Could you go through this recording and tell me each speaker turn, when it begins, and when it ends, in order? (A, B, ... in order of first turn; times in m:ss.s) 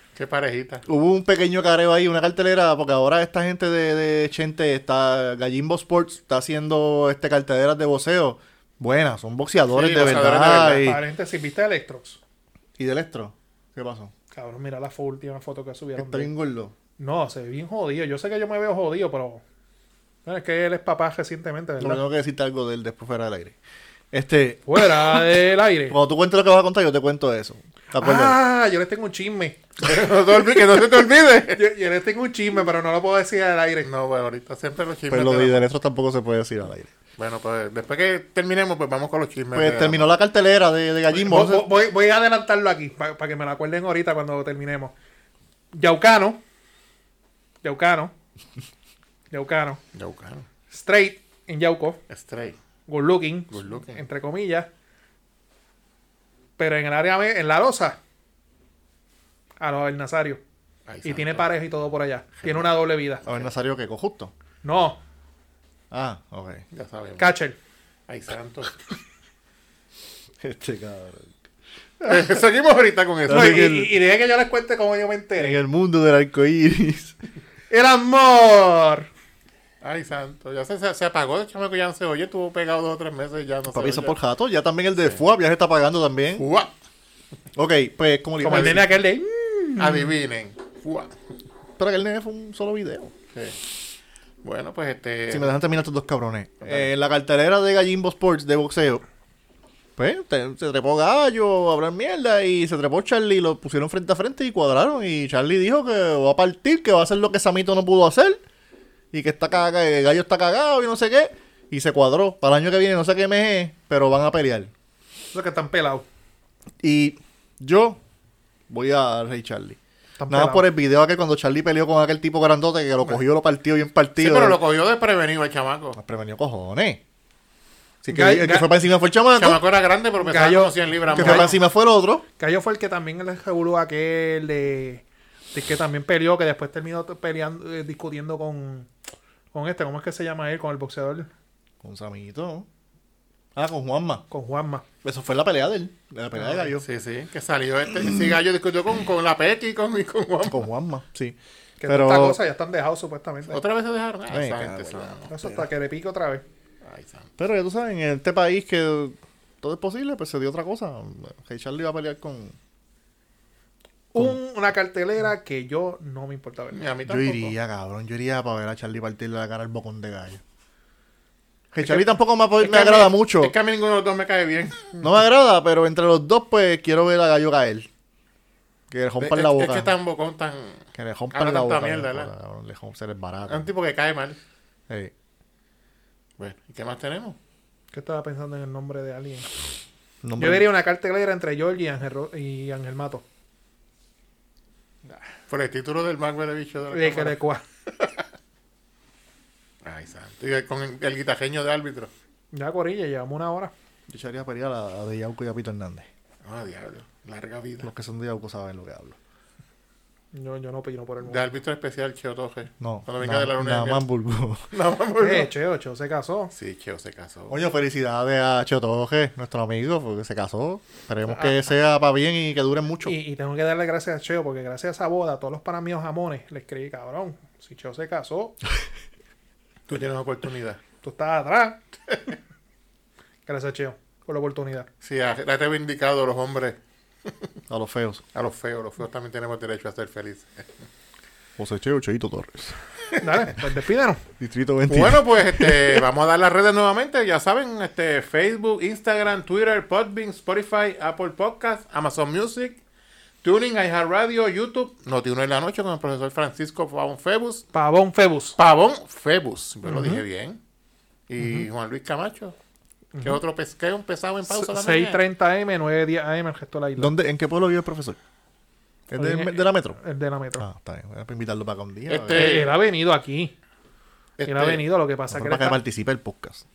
0:00.2-0:00.8 A
0:00.8-0:11.0 B
0:09.7-0:10.9 A
0:10.8-0:12.2 C
0:12.8-0:14.1 B
0:14.3-0:16.3 C
0:16.0-0:16.7 B
0:17.0-0:19.4 C
0:20.2-0:22.0 C
0:21.8-0:23.5 B
0:24.1-0:25.3 B
0:24.7-0:26.0 C
0:25.9-0:28.4 B
0:28.0-0:29.6 C
0:29.8-0:31.6 A
0:31.5-0:33.9 C
0:33.8-0:35.6 A
0:35.1-0:36.9 B
0:37.2-0:40.1 A
0:39.5-0:41.7 B
0:41.1-0:44.9 C
0:45.7-0:46.4 C
0:47.6-0:48.1 C
0:49.3-0:49.8 C
0:49.9-0:50.4 A
0:50.7-0:52.0 C
0:52.1-0:52.6 A
0:52.9-0:54.7 C
0:53.5-0:54.0 A
0:56.6-0:58.0 C
0:59.6-1:00.4 C
1:00.9-1:01.5 A
1:01.0-1:03.2 C
1:03.2-1:03.5 A
1:03.2-1:04.3 B
1:04.6-1:05.0 C
1:05.9-1:06.6 B
1:06.7-1:07.3 A
1:07.2-1:07.6 C
1:08.1-1:08.8 A
1:10.4-1:11.4 B
1:12.0-1:13.7 A
1:13.3-1:13.9 B
1:13.3-1:15.6 C
1:15.4-1:17.2 B
1:17.7-1:19.1 C
1:19.8-1:24.1 A
1:23.7-1:26.4 B
1:26.4-1:26.7 A
1:27.5-1:28.9 B
1:28.4-1:30.1 C
1:28.5-1:28.8 A
1:29.8-1:31.1 A
1:31.8-1:33.1 B
1:34.4-1:35.5 A
1:35.3-1:39.0 B
1:36.6-1:36.9 A
1:40.0-1:48.4 B
1:49.1-1:54.7 B
1:55.3-1:56.0 C
1:56.8-1:58.0 B
1:58.7-2:04.6 B
2:00.2-2:00.6 C
2:04.2-2:06.0 A
2:05.9-2:07.0 B
2:08.0-2:09.6 B
2:08.1-2:08.7 C
2:09.4-2:11.6 A
2:10.2-2:11.6 C
2:11.1-2:12.2 B
2:12.4-2:18.9 C
2:19.5-2:21.3 C
2:21.8-2:22.7 B
2:23.6-2:24.2 B
2:24.3-2:24.8 C
2:25.0-2:26.8 B
2:26.4-2:26.7 C
2:26.8-2:30.6 A
2:30.4-2:32.4 B
2:31.8-2:33.6 C
2:33.5-2:35.3 A
2:34.3-2:35.6 B
2:35.3-2:36.4 C
2:36.8-2:37.3 A
2:37.4-2:42.6 B
2:44.1-2:46.8 C
2:46.7-2:47.5 A
2:47.1-2:50.4 B
2:51.7-2:53.5 B
2:52.6-2:55.0 A
2:55.0-2:57.9 B
2:58.9-2:59.9 B
2:59.2-3:02.3 A
3:01.0-3:03.7 B
3:03.5-3:04.4 A
3:06.4-3:07.4 A
3:07.9-3:09.5 C
3:10.2-3:10.6 B
3:10.4-3:13.2 C
3:15.5-3:18.2 A
3:16.9-3:17.6 C
3:19.8-3:22.1 A
3:22.5-3:23.7 C
3:24.1-3:26.1 B
3:26.4-3:27.9 A
3:27.8-3:29.2 B
3:30.3-3:31.5 C
3:31.2-3:34.0 A
3:32.8-3:34.6 B
3:34.7-3:35.5 A
3:35.2-3:36.5 C
3:36.5-3:37.6 A
3:37.5-3:43.2 B
3:41.3-3:41.6 C
3:43.0-3:48.5 C
3:49.9-3:50.8 A
3:51.0-3:51.8 C
3:53.4-3:54.9 C
3:55.0-3:57.3 A
3:57.7-3:58.2 B
3:58.3-4:00.9 A
4:01.6-4:02.8 B
4:03.2-4:04.2 C
4:04.4-4:06.0 B
4:04.9-4:12.8 A
4:13.4-4:17.6 A
4:17.7-4:18.6 C
4:18.6-4:20.6 A
4:19.9-4:20.2 C
4:21.3-4:22.5 A
4:21.4-4:21.6 C
4:23.1-4:23.4 C
4:23.2-4:25.2 A
4:24.5-4:27.1 C
4:27.0-4:28.2 B
4:29.1-4:30.0 B
4:29.1-4:30.6 C
4:30.6-4:32.6 B
4:32.1-4:32.7 A
4:32.3-4:33.5 C
4:34.4-4:34.8 A
4:34.4-4:35.8 C
4:35.3-4:36.6 B